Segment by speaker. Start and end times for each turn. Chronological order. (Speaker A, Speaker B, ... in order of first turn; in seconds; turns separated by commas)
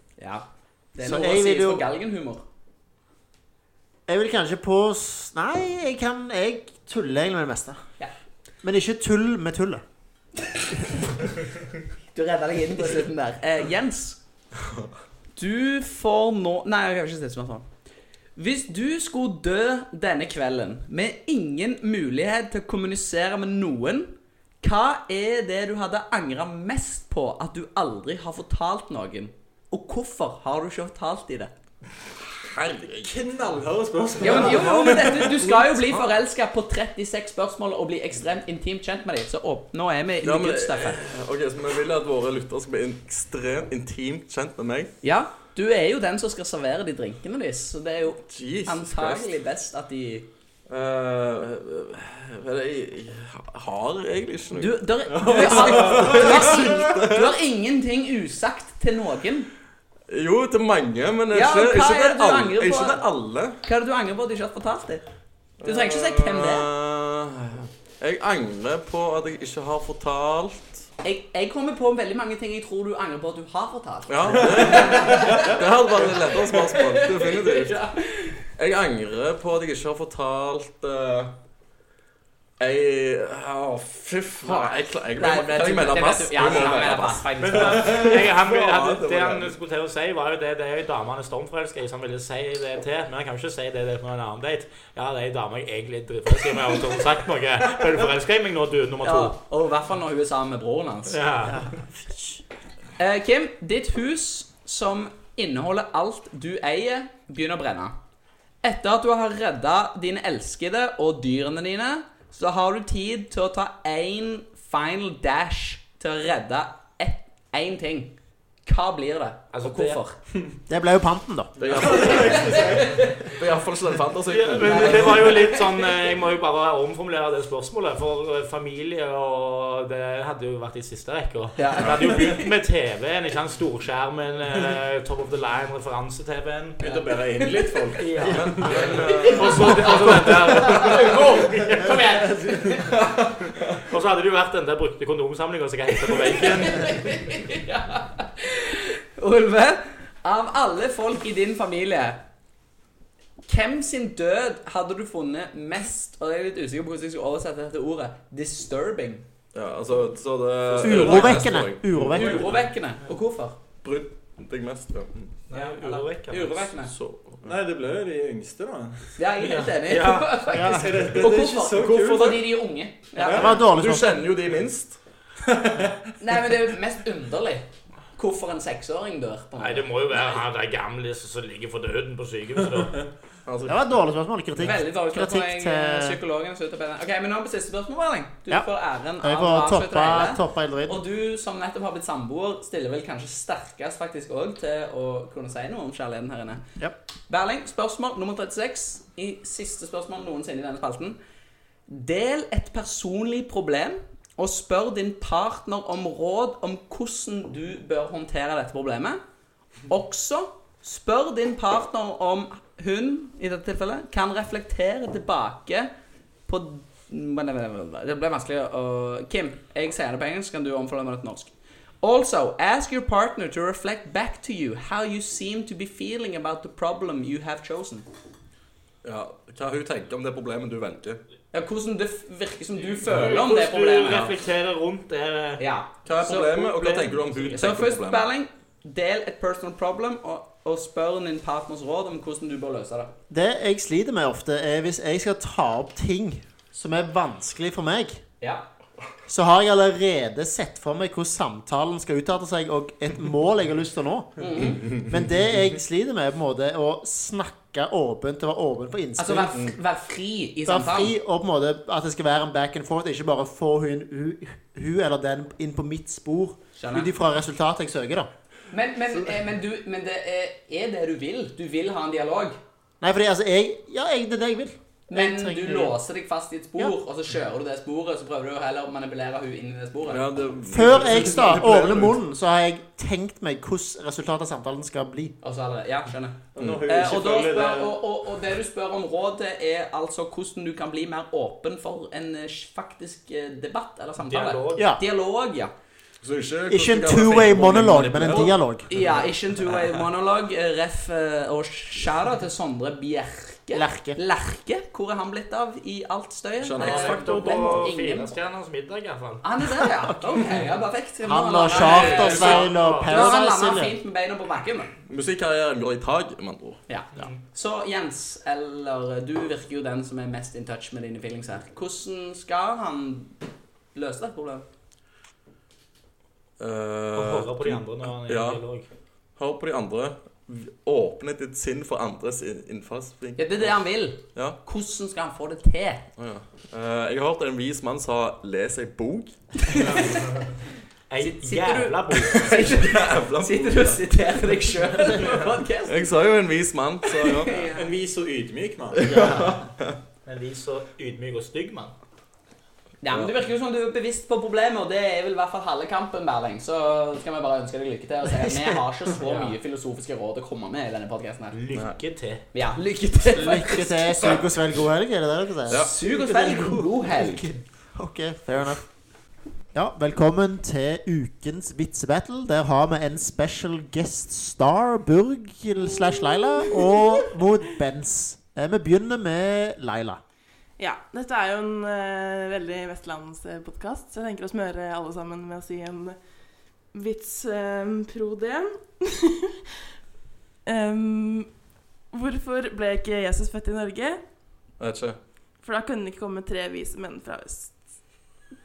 Speaker A: 0.2-2.4, Speaker B: 1.0-1.9, Speaker B: 4.1-7.8, Speaker B: 8.6-9.8, Speaker A: 12.1-14.2, Speaker A: 15.4-17.6, Speaker A: 18.4-31.5, Speaker C: 32.4-33.1, Speaker D: 33.0-35.5, Speaker A: 34.2-41.0, Speaker C: 34.2-36.1, Speaker C: 40.2-44.9, Speaker A: 45.0-50.3, Speaker C: 48.3-49.3, Speaker C: 50.7-57.2, Speaker A: 54.5-59.5, Speaker D: 55.2-56.4, Speaker C: 60.1-63.6, Speaker A: 61.3-63.0, Speaker A: 63.6-65.0, Speaker C: 65.6-70.8, Speaker A: 65.6-66.7, Speaker A: 71.0-78.4, Speaker C: 74.1-77.8, Speaker D: 74.6-75.5, Speaker C: 78.6-81.3, Speaker C: 82.6-89.6, Speaker A: 84.4-88.1, Speaker D: 87.4-88.1, Speaker E: 87.4-99.4, Speaker A: 99.0-101.2, Speaker E: 101.1-101.7, Speaker B: 101.5-102.4, Speaker A: 103.0-107.9, Speaker A: 108.6-118.1, Speaker A: 118.7-120.2, Speaker E: 119.5-120.0, Speaker B: 120.7-121.5, Speaker C: 121.6-122.7, Speaker D: 121.8-123.0, Speaker A: 121.8-123.4, Speaker C: 123.2-125.4, Speaker E: 124.3-137.0, Speaker A: 124.6-125.8, Speaker A: 131.6-132.5, Speaker D: 136.8-139.0, Speaker E: 138.0-142.9, Speaker C: 138.3-139.9, Speaker A: 138.8-141.5, Speaker A: 142.5-143.0, Speaker E: 143.8-147.1, Speaker A: 146.1-152.2, Speaker A: 153.5-159.3, Speaker C: 159.5-162.3, Speaker E: 160.8-161.5, Speaker B: 160.8-162.4, Speaker A: 162.1-163.6, Speaker C: 163.8-165.3, Speaker E: 165.5-166.7, Speaker A: 165.5-166.9, Speaker C: 166.9-167.5, Speaker D: 167.4-169.1, Speaker A: 169.2-173.5, Speaker E: 169.5-170.5, Speaker B: 170.5-171.1, Speaker D: 170.5-172.6, Speaker C: 171.8-172.3, Speaker D: 173.2-173.6, Speaker B: 173.2-174.2, Speaker C: 173.5-175.0, Speaker D: 175.5-176.0, Speaker A: 176.2-177.7, Speaker A: 178.2-179.9, Speaker E: 179.6-183.1, Speaker C: 183.5-183.8, Speaker B: 183.7-186.2, Speaker A: 184.6-196.6, Speaker B: 189.2-191.0, Speaker A: 197.3-201.2, Speaker A: 201.9-209.2, Speaker A: 209.9-215.9, Speaker A: 216.5-228.1, Speaker C: 229.0-231.2, Speaker A: 231.5-234.3, Speaker E: 233.0-235.6, Speaker C: 234.0-234.3, Speaker A: 235.6-236.6, Speaker C: 236.1-238.3, Speaker E: 236.3-237.5, Speaker A: 237.5-243.1, Speaker B: 243.3-248.2, Speaker B: 249.3-259.7, Speaker A: 254.4-255.1, Speaker A: 259.2-261.1, Speaker B: 260.6-268.3, Speaker A: 266.8-267.1, Speaker A: 268.7-272.6, Speaker B: 273.0-276.0, Speaker A: 275.1-280.2, Speaker C: 280.1-282.2, Speaker B: 280.7-285.4, Speaker D: 281.5-281.9, Speaker A: 285.4-295.7, Speaker D: 286.5-288.0, Speaker E: 294.2-294.9, Speaker B: 294.8-295.0, Speaker C: 296.2-299.1, Speaker B: 296.7-298.9, Speaker A: 298.9-308.3, Speaker B: 303.7-304.2, Speaker C: 306.6-307.3, Speaker E: 306.8-309.4, Speaker A: 309.4-314.9, Speaker B: 311.2-313.9, Speaker C: 311.7-312.7, Speaker E: 312.4-313.3, Speaker C: 315.1-316.8, Speaker A: 316.9-323.4, Speaker A: 323.9-324.6, Speaker C: 326.6-328.6, Speaker E: 327.1-328.9, Speaker C: 329.4-333.8, Speaker A: 333.4-336.1, Speaker C: 334.3-334.6, Speaker C: 336.2-339.7, Speaker A: 339.6-340.4, Speaker E: 339.8-340.3, Speaker E: 341.1-342.5, Speaker A: 341.2-346.2, Speaker C: 342.3-344.1, Speaker C: 345.9-347.6, Speaker A: 347.1-347.9, Speaker D: 347.5-349.6, Speaker C: 349.0-350.0, Speaker E: 350.3-351.9, Speaker A: 353.0-361.6, Speaker E: 359.2-359.6, Speaker E: 361.5-362.5, Speaker A: 362.5-364.4, Speaker B: 363.3-368.8, Speaker C: 365.7-365.9, Speaker A: 365.7-367.6, Speaker B: 369.7-380.2, Speaker F: 380.8-386.2, Speaker F: 386.9-389.5, Speaker F: 390.7-391.5, Speaker F: 392.1-394.2, Speaker C: 394.8-395.2, Speaker F: 395.6-397.8